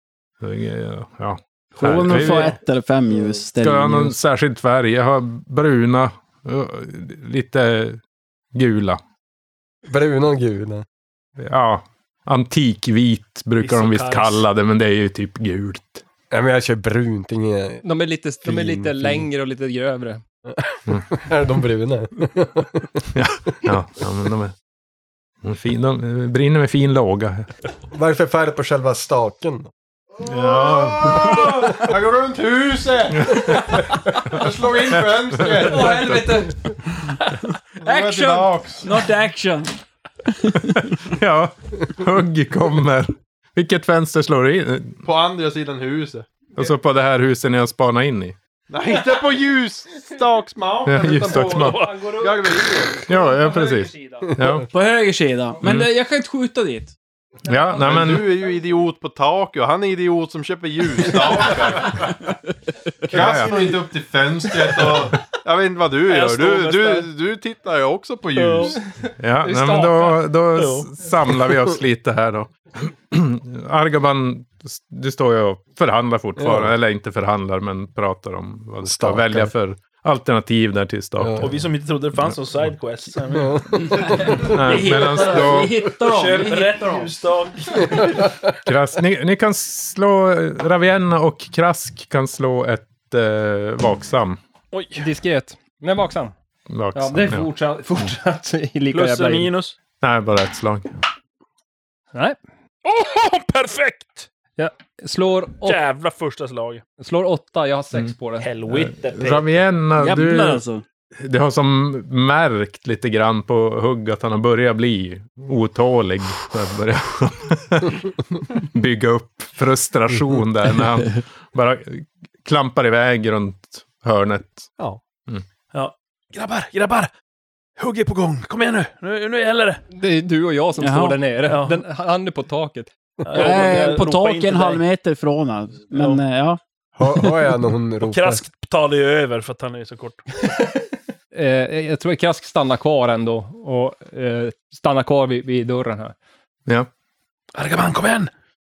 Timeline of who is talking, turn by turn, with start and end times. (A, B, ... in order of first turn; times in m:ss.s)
0:00.4-0:02.6 A
0:01.8-0:04.2 B
0:03.6-0:08.0 A
0:08.5-0:09.0 A
0:09.8-0:10.8 C
0:11.4-0:16.0 A
0:13.6-0:14.4 D
0:16.3-0:17.8 C
0:17.8-0:20.2 E
0:18.4-0:19.3 C
0:20.5-0:23.1 C
0:23.1-0:24.5 A
0:25.4-0:27.5 A
0:27.9-0:29.7 C
0:30.2-0:31.7 A
0:30.4-0:36.5 F
0:33.2-0:34.4 A
0:35.4-0:35.7 A
0:35.7-0:36.5 E
0:37.8-0:38.9 F
0:37.8-0:39.7 B
0:40.2-0:40.7 B
0:40.6-0:45.0 A
0:45.0-0:46.3 F
0:46.6-0:48.4 A
0:48.7-0:53.2 F
0:50.8-0:51.9 A
0:51.0-0:52.4 E
0:51.3-0:52.2 D
0:53.1-0:54.7 A
0:53.3-0:53.9 E
0:54.7-0:56.9 B
0:55.6-0:55.9 A
0:57.4-0:58.3 A
0:57.8-1:02.1 F
1:03.0-1:08.8 F
1:03.1-1:03.7 A
1:06.1-1:07.1 D
1:08.3-1:08.8 D
1:09.2-1:21.5 A
1:09.4-1:10.2 E
1:10.6-1:11.1 D
1:16.4-1:16.7 C
1:18.8-1:19.5 C
1:21.2-1:21.5 C
1:21.4-1:25.5 D
1:22.3-1:22.7 A
1:23.4-1:23.6 C
1:23.8-1:27.1 B
1:24.4-1:25.8 A
1:26.0-1:28.2 D
1:28.6-1:34.4 A
1:34.7-1:35.1 D
1:35.0-1:36.3 E
1:36.7-1:37.5 A
1:36.9-1:39.5 E
1:38.9-1:39.8 D
1:40.0-1:40.9 A
1:42.8-1:44.3 D
1:44.6-1:45.8 E
1:45.6-1:46.8 D
1:47.0-1:48.5 E
1:48.4-1:49.5 D
1:48.7-1:50.6 A
1:50.0-1:50.8 B
1:51.2-2:04.7 A
2:05.7-2:07.1 D
2:07.8-2:09.8 D
2:09.9-2:12.9 E
2:10.8-2:11.2 B
2:11.5-2:11.8 D
2:13.2-2:14.8 D
2:13.3-2:16.6 B
2:15.9-2:16.2 D
2:17.0-2:18.4 C
2:18.0-2:20.2 D
2:21.3-2:26.1 E
2:27.5-2:28.3 D